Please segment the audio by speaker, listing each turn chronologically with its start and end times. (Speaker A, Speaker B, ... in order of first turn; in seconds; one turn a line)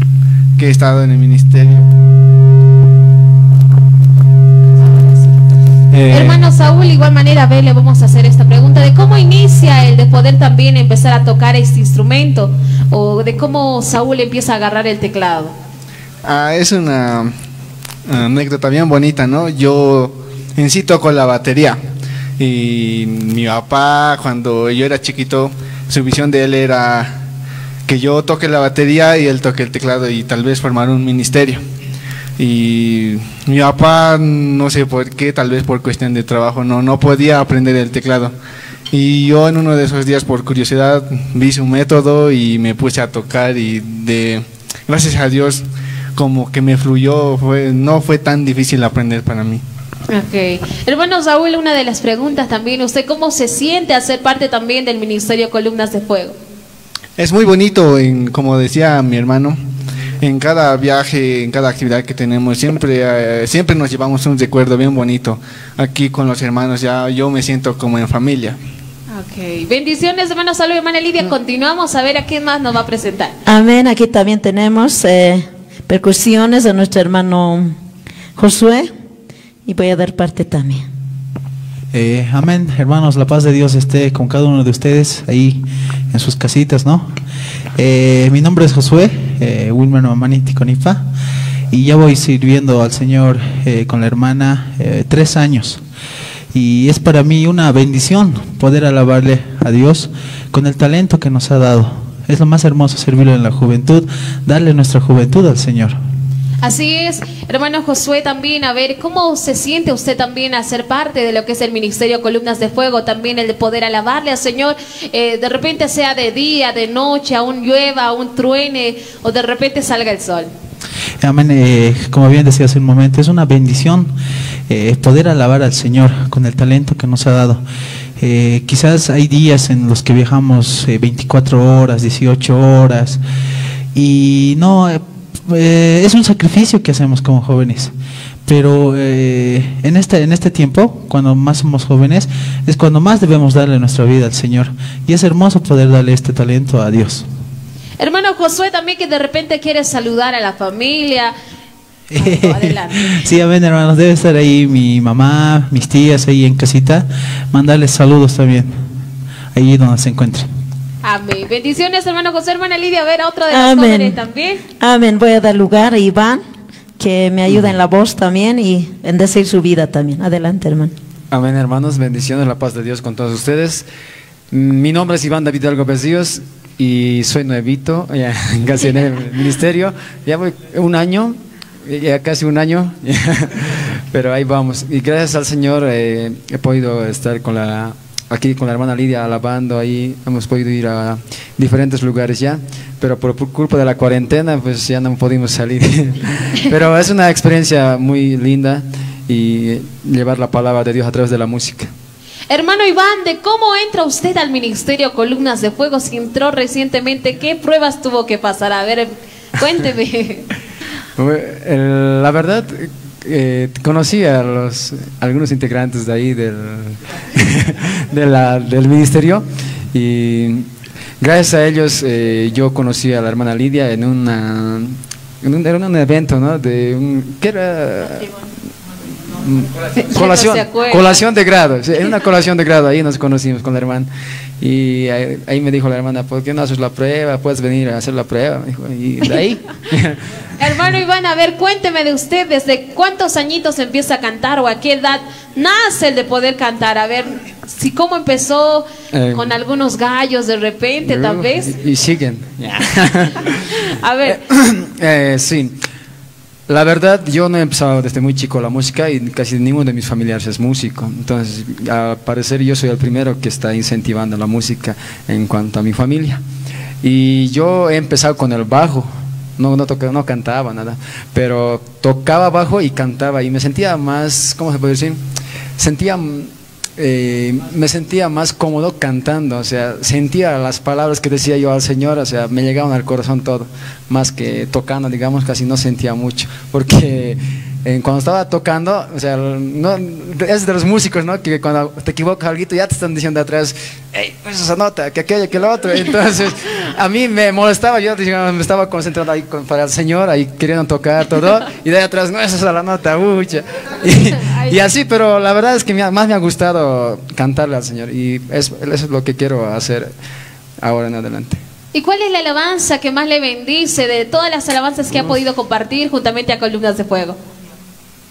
Speaker A: 0.6-1.8
Speaker B: 6.0-6.3
Speaker C: 6.1-15.5
Speaker A: 16.2-17.3
Speaker A: 18.1-21.8
Speaker A: 22.4-27.1
Speaker A: 27.9-31.6
Speaker A: 32.4-38.3
Speaker A: 38.9-45.6
Speaker A: 46.1-49.6
Speaker C: 50.1-56.4
Speaker A: 57.2-59.6
Speaker A: 60.2-68.6
Speaker C: 69.1-73.4
Speaker D: 73.4-77.8
Speaker D: 78.4-78.9
Speaker D: 79.7-80.8
Speaker E: 81.9-87.1
Speaker E: 87.8-91.0
Speaker E: 91.7-95.8
Speaker E: 96.5-106.0
Speaker C: 106.6-120.5
Speaker E: 121.2-124.1
Speaker E: 124.7-127.6
Speaker E: 128.2-133.2
Speaker E: 133.9-137.9
Speaker E: 138.4-147.3
Speaker C: 148.0-151.3
Speaker E: 152.1-158.8
Speaker C: 152.2-153.2
Speaker E: 159.5-160.5
Speaker C: 161.0-164.6
Speaker D: 163.5-164.2
Speaker D: 164.8-166.4
Speaker D: 167.0-170.9
Speaker B: 171.3-173.8
Speaker B: 174.5-201.9
Speaker C: 202.5-210.5
Speaker B: 211.2-220.7
Speaker B: 221.2-228.4
Speaker B: 229.3-234.1
Speaker C: 229.9-231.2
Speaker B: 234.6-240.2
Speaker C: 240.6-251.7
Speaker B: 249.1-249.6
Speaker B: 251.0-253.7
Speaker C: 254.0-254.4
Speaker B: 254.2-255.8
Speaker B: 256.7-266.4
Speaker B: 267.0-275.2
Speaker B: 275.8-310.1
Speaker C: 304.4-304.7
Speaker B: 310.8-311.6
Speaker C: 311.9-317.4